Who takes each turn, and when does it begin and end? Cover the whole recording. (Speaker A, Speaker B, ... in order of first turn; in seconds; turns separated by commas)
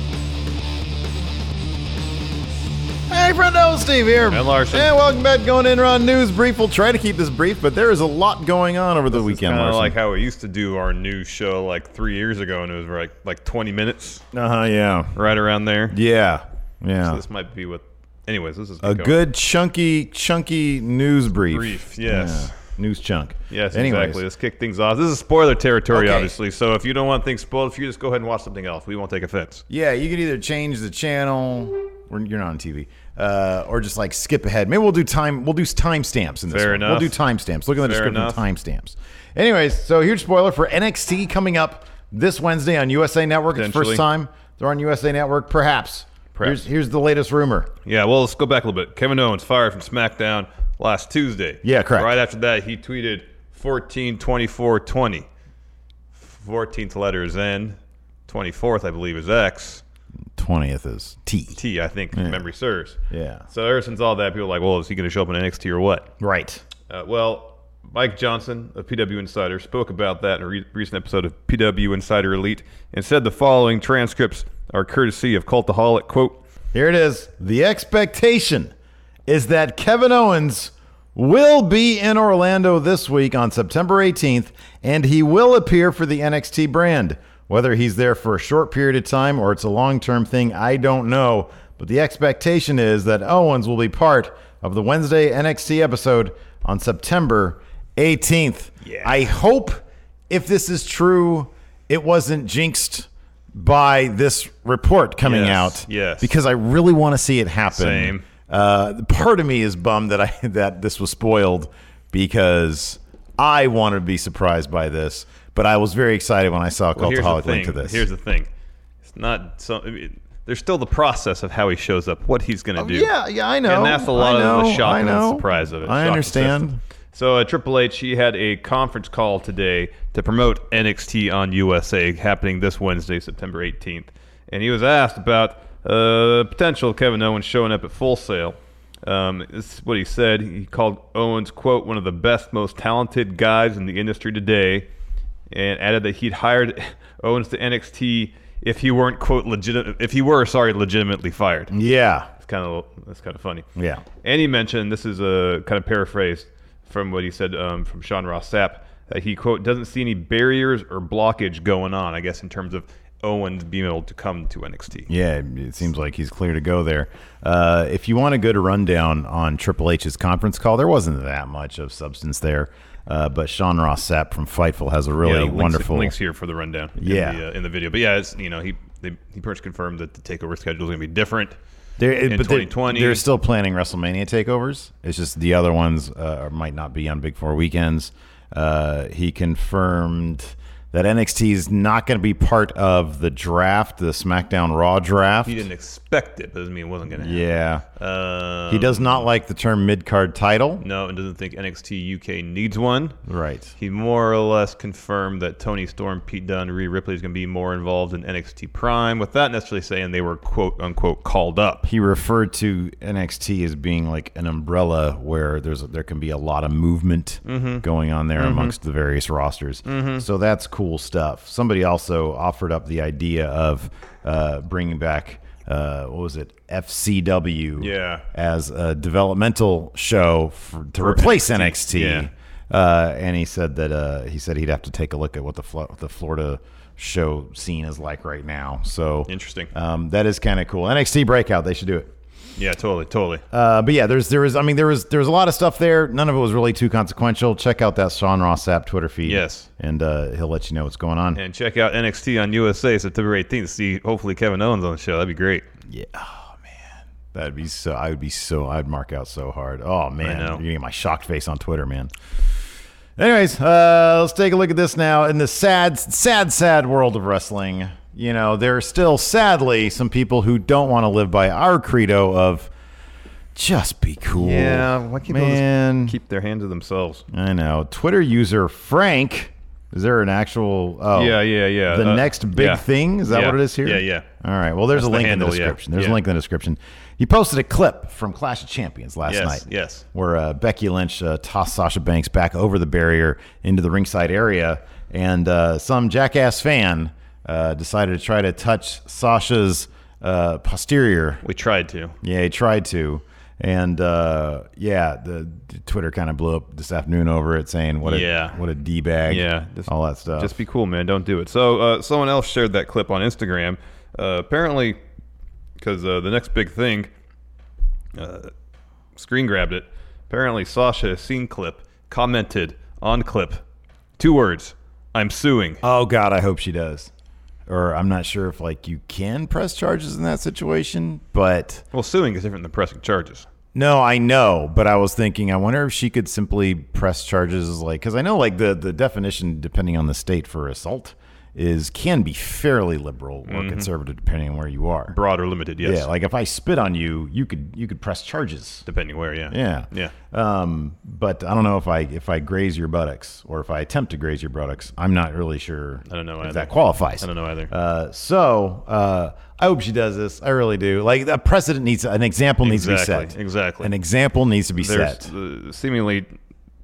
Speaker A: 3.1-9.9, Speaker B: 4.3-4.9, Speaker B: 9.1-14.2, Speaker A: 14.3-15.2, Speaker B: 15.2-15.9, Speaker A: 15.9-17.2, Speaker B: 17.0-19.1, Speaker A: 18.8-24.2, Speaker B: 21.4-22.5, Speaker B: 23.5-29.6, Speaker A: 25.9-26.4, Speaker A: 29.7-47.7, Speaker B: 36.5-37.2, Speaker B: 37.8-38.4, Speaker B: 43.5-44.0, Speaker B: 46.3-46.7, Speaker B: 47.8-55.3, Speaker A: 51.6-52.1, Speaker B: 56.2-59.8, Speaker A: 60.4-61.6, Speaker B: 61.5-63.0, Speaker A: 62.1-62.4, Speaker A: 63.1-63.5, Speaker B: 63.5-66.1, Speaker A: 66.2-66.6, Speaker B: 66.9-76.4, Speaker A: 76.7-78.7, Speaker A: 79.3-118.1, Speaker B: 98.8-99.2, Speaker B: 105.2-106.3, Speaker B: 107.7-108.2, Speaker B: 116.9-118.5, Speaker B: 119.0-123.1, Speaker A: 122.8-126.8, Speaker B: 123.7-126.6, Speaker B: 127.1-144.9, Speaker B: 145.5-151.7, Speaker A: 151.7-152.3, Speaker B: 152.4-153.6, Speaker A: 153.8-154.0, Speaker B: 154.2-165.1, Speaker A: 165.1-176.1, Speaker B: 175.2-181.6, Speaker A: 177.0-177.4, Speaker A: 182.0-195.6, Speaker B: 182.3-183.2, Speaker B: 195.4-199.2, Speaker A: 197.1-197.8, Speaker A: 198.7-200.8, Speaker B: 200.8-203.2, Speaker A: 203.3-203.7, Speaker B: 203.8-211.8, Speaker A: 211.8-242.1, Speaker B: 217.4-217.8, Speaker B: 218.4-218.7, Speaker B: 219.8-220.2, Speaker B: 227.8-228.2, Speaker B: 231.0-232.3, Speaker B: 239.3-239.7, Speaker B: 242.6-243.4, Speaker A: 243.5-251.4, Speaker B: 249.2-249.7, Speaker B: 251.3-255.6, Speaker A: 255.9-262.1, Speaker B: 260.2-260.6, Speaker A: 263.2-272.7, Speaker A: 273.5-276.1, Speaker B: 274.3-277.2, Speaker A: 277.3-301.4, Speaker B: 281.1-284.2, Speaker B: 284.9-286.2, Speaker B: 289.2-290.0, Speaker B: 301.4-302.1, Speaker A: 302.2-310.6, Speaker B: 308.0-308.6, Speaker B: 309.3-315.0, Speaker B: 315.8-317.1, Speaker B: 318.1-318.5, Speaker B: 319.1-323.6, Speaker B: 324.2-325.8, Speaker A: 325.8-327.1, Speaker A: 327.7-331.8, Speaker B: 331.9-333.5, Speaker A: 333.7-345.1, Speaker B: 343.5-343.9, Speaker B: 345.1-346.1, Speaker A: 345.8-348.8, Speaker B: 348.9-350.1, Speaker A: 349.5-365.3, Speaker B: 356.1-357.7, Speaker B: 362.6-363.9, Speaker B: 364.8-366.3